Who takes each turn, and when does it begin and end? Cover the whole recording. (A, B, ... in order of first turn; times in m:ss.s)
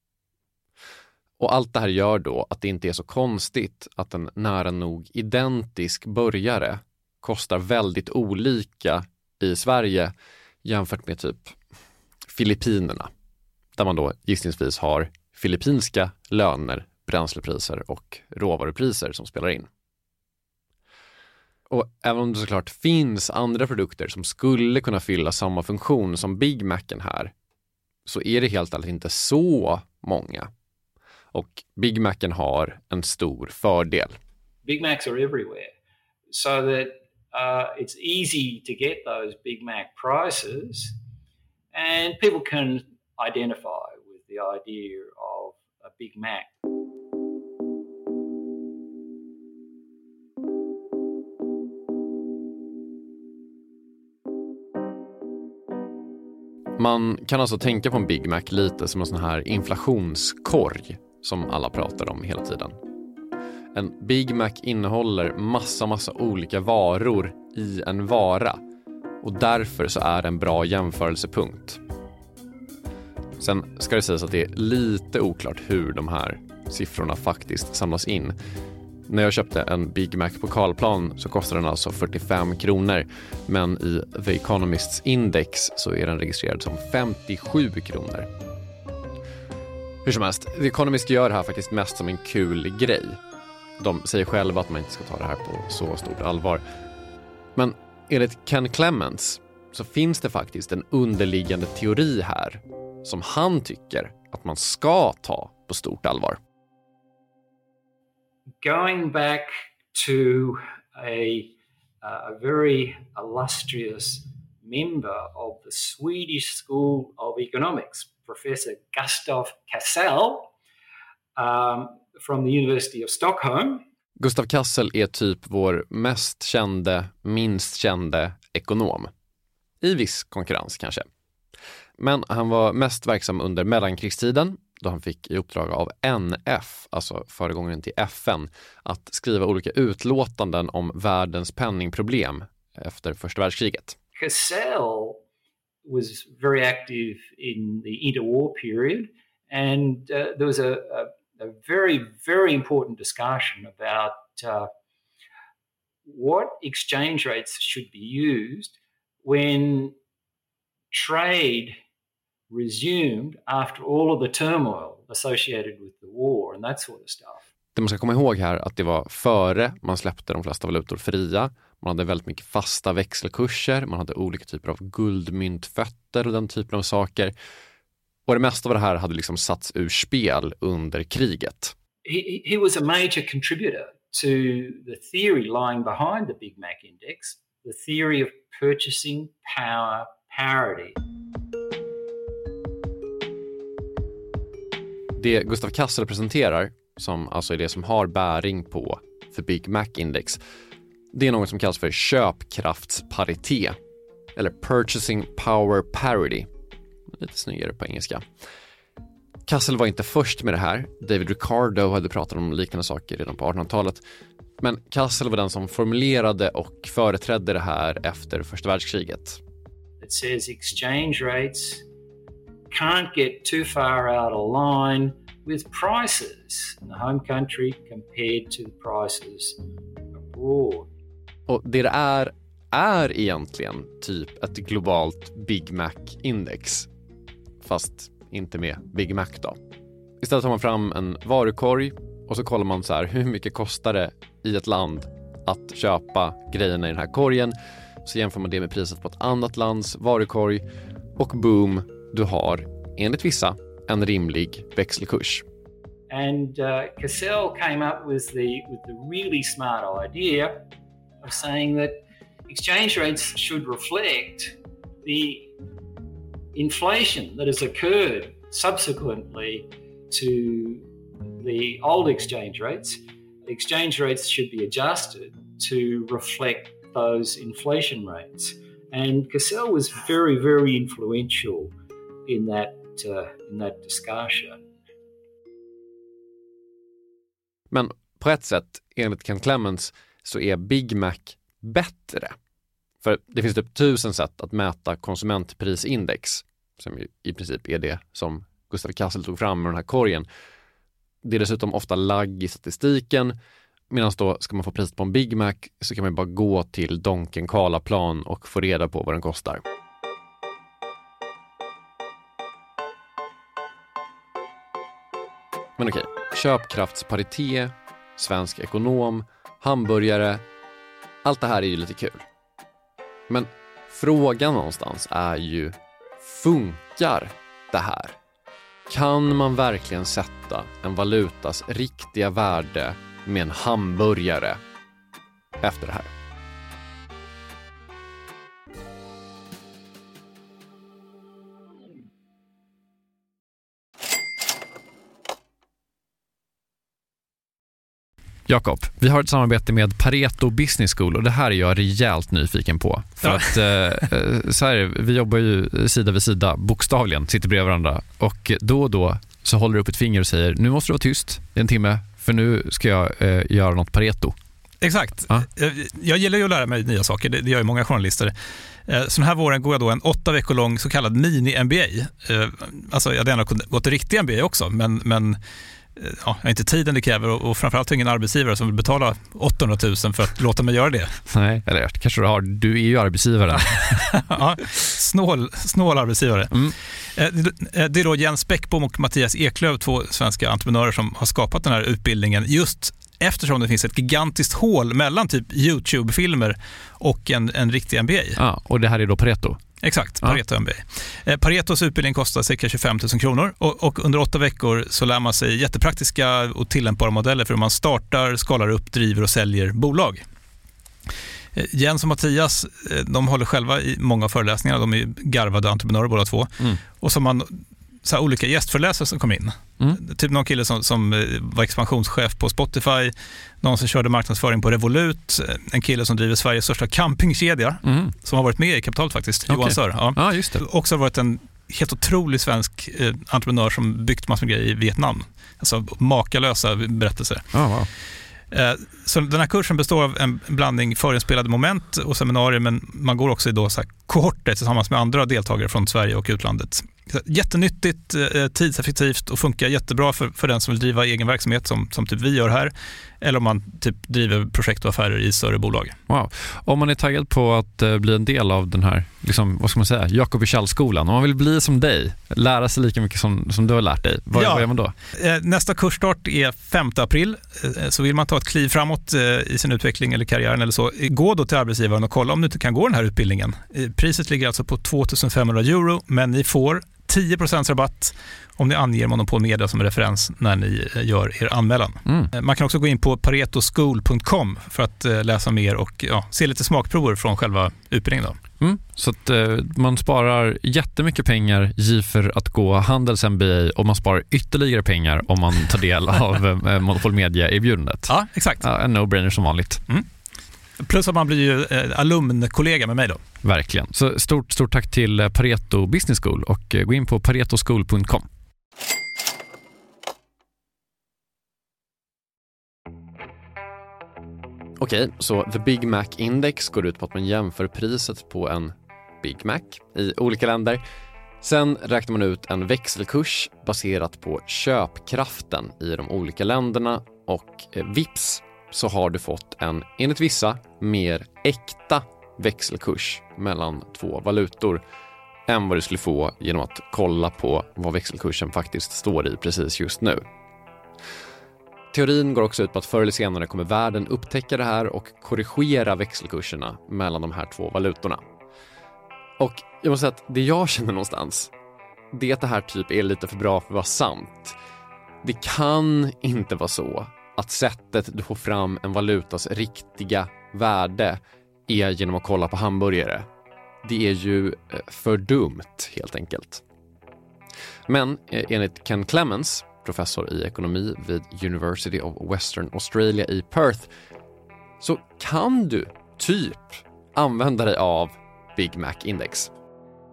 0:01.4-0:10.1 A
0:10.6-0:11.6 A
0:12.3-0:13.1 A
0:13.8-0:19.7 A
0:21.7-0:27.3 A
0:28.1-0:30.5 A
0:31.3-0:34.2 A
0:34.6-0:35.7 B
0:36.3-0:41.0 B
0:41.7-0:46.5 B
0:56.8-1:02.8 A
1:03.7-1:08.6 A
1:09.2-1:11.8 A
1:13.4-1:18.4 A
1:19.1-1:28.3 A
1:30.0-1:33.2 A
1:33.8-1:36.6 A
1:37.6-1:46.4 A
1:48.6-2:00.5 B
2:01.4-2:03.8 B
2:04.2-2:09.1 A
2:09.8-2:11.1 A
2:12.0-2:24.0 A
2:24.2-2:25.2 B
2:25.8-2:34.7 B
2:36.0-2:40.0 B
2:40.9-2:41.8 B
2:42.5-2:47.4 B
2:47.8-2:57.3 A
2:58.3-3:01.7 A
3:02.0-3:11.0 B
3:15.2-3:20.4 A
3:21.1-3:23.8 A
3:24.4-3:26.5 A
3:27.1-3:28.2 A
3:29.5-3:34.0 A
3:34.6-3:39.4 A
3:40.0-3:41.8 B
3:42.7-3:49.6 B
3:50.2-3:50.9 B
3:51.5-3:56.9 A
3:57.6-3:59.6 A
4:00.2-4:10.6 A
4:11.2-4:15.4 A
4:16.1-4:20.7 B
4:21.2-4:25.5 B
4:26.5-4:41.7 B
4:42.3-4:44.7 B
4:47.7-4:52.4 A
4:53.0-5:00.3 A
5:01.2-5:03.4 A
5:03.9-5:09.6 A
5:15.8-5:20.4 A
5:21.2-5:22.3 A
5:23.3-5:28.2 A
5:28.9-5:34.6 A
5:35.6-5:36.1 A
5:48.5-6:04.4 A
5:53.3-5:53.6 C
6:04.8-6:08.3 C
6:08.9-6:15.4 C
6:16.0-6:21.2 C
6:21.3-6:24.1 A
6:23.9-6:26.6 C
6:27.2-6:38.4 C
6:38.4-6:39.6 A
6:39.8-6:50.2 C
6:51.6-7:17.5 C
7:07.8-7:08.2 A
7:09.5-7:10.6 A
7:17.5-7:17.9 A
7:18.5-7:36.0 C
7:36.1-7:45.0 A
7:44.3-8:08.4 C
8:02.1-8:02.3 A
8:08.6-8:19.8 A
8:18.1-8:18.6 C
8:20.8-8:23.2 C
8:23.4-8:28.3 A
8:34.8-8:40.8 A
8:41.4-8:54.8 A
8:55.5-9:00.2 A
9:01.9-9:08.2 A
9:09.4-9:11.5 A
9:12.1-9:14.6 A
9:15.2-9:23.3 A
9:23.8-9:26.6 A
9:27.9-9:33.9 A
9:34.8-9:39.5 A